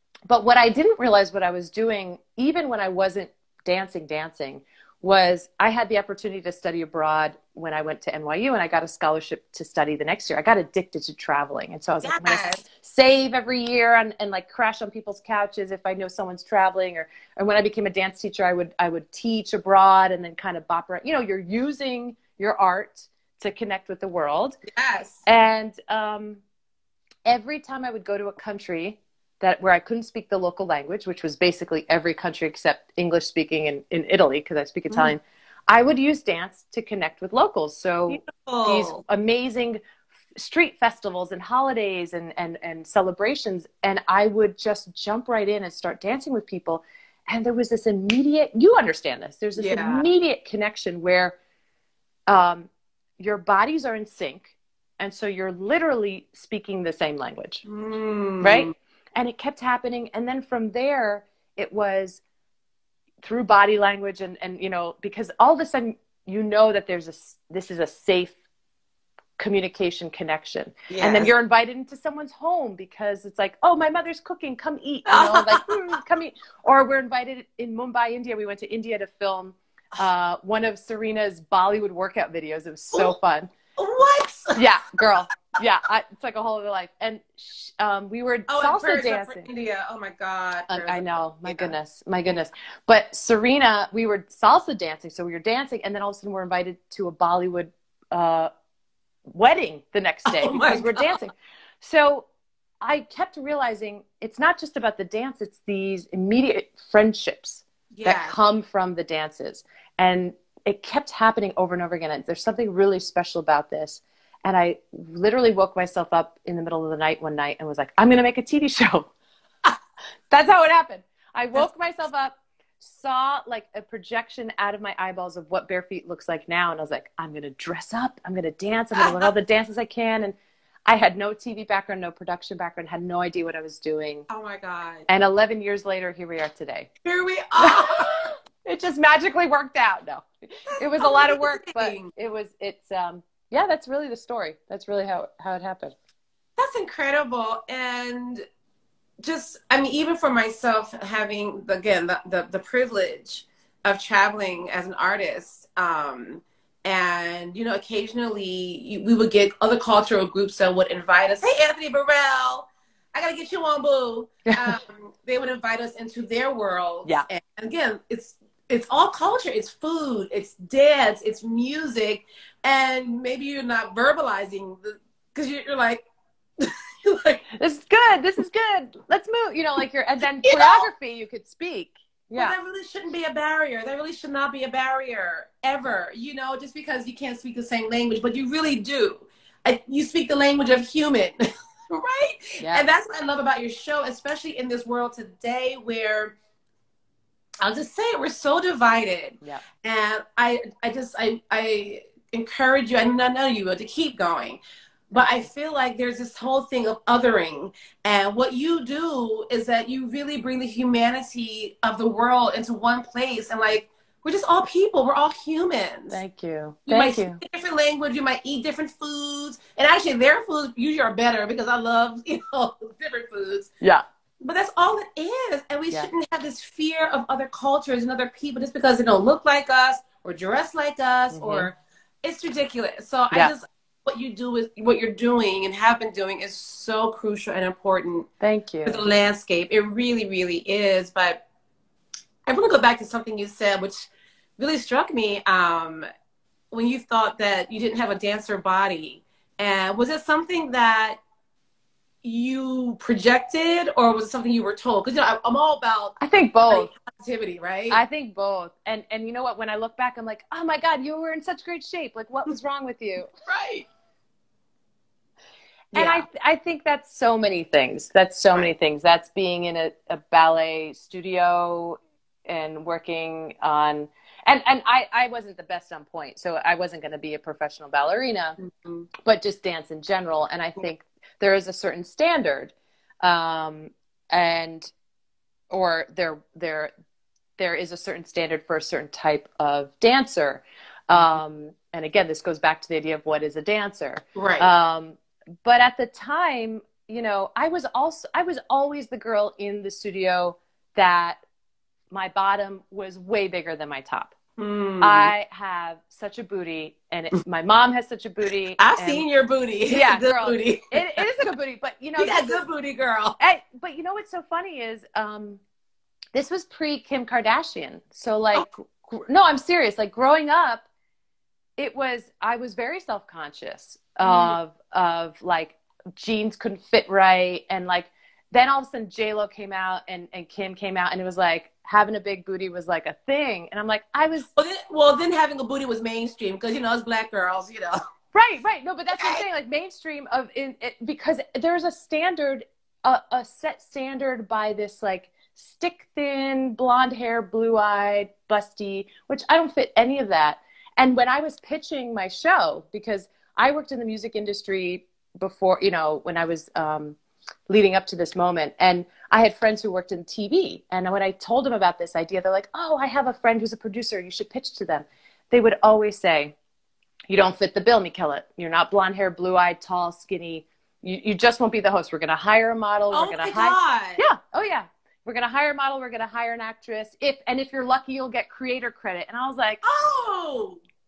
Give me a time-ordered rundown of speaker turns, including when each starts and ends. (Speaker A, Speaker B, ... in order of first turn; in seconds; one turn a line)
Speaker A: 0.3-24.6
Speaker B: 12.0-12.6
Speaker B: 24.7-25.2
Speaker A: 25.2-26.4
Speaker A: 27.2-39.8
Speaker B: 38.1-39.0
Speaker A: 40.4-51.4
Speaker B: 49.5-50.0
Speaker A: 52.3-57.6
Speaker B: 57.6-58.7
Speaker A: 58.4-62.2
Speaker A: 63.2-68.4
Speaker A: 69.4-83.5
Speaker B: 70.9-71.3
Speaker B: 75.1-75.9
Speaker B: 83.8-84.6
Speaker A: 84.6-89.5
Speaker B: 88.5-91.7
Speaker A: 90.7-98.5
Speaker A: 99.3-102.2
Speaker B: 100.3-101.1
Speaker A: 102.8-119.1
Speaker B: 107.9-108.3
Speaker A: 120.3-130.3
Speaker B: 128.9-129.3
Speaker A: 130.9-134.3
Speaker B: 134.3-135.1
Speaker A: 135.1-136.9
Speaker B: 137.0-138.2
Speaker A: 137.6-145.9
Speaker B: 140.7-142.1
Speaker B: 146.6-148.4
Speaker B: 149.2-176.0
Speaker A: 164.5-164.7
Speaker B: 176.6-177.4
Speaker A: 177.6-182.5
Speaker B: 180.4-180.9
Speaker B: 182.3-196.3
Speaker A: 192.6-192.9
Speaker B: 197.6-204.6
Speaker B: 205.1-216.2
Speaker A: 216.1-217.4
Speaker B: 216.9-223.7
Speaker B: 224.4-238.3
Speaker A: 231.3-231.7
Speaker A: 238.4-239.0
Speaker B: 238.8-241.4
Speaker B: 242.5-246.1
Speaker B: 246.7-251.2
Speaker B: 252.2-256.1
Speaker A: 256.2-256.9
Speaker B: 256.7-258.0
Speaker A: 257.9-263.3
Speaker B: 263.4-263.9
Speaker B: 265.9-266.2
Speaker A: 265.9-278.6
Speaker B: 278.6-279.1
Speaker A: 279.2-284.9
Speaker A: 285.7-286.9
Speaker A: 287.6-301.4
Speaker B: 294.3-294.7
Speaker A: 302.1-304.3
Speaker B: 304.6-305.3
Speaker A: 305.0-309.2
Speaker B: 308.8-311.2
Speaker A: 309.9-312.6
Speaker B: 312.2-313.4
Speaker A: 313.4-315.6
Speaker A: 316.3-320.9
Speaker A: 321.8-334.5
Speaker B: 324.2-324.6
Speaker B: 334.5-338.0
Speaker A: 338.3-357.2
Speaker B: 339.2-339.4
Speaker A: 357.7-366.5
Speaker A: 367.3-379.8
Speaker B: 373.1-374.2
Speaker B: 379.8-380.8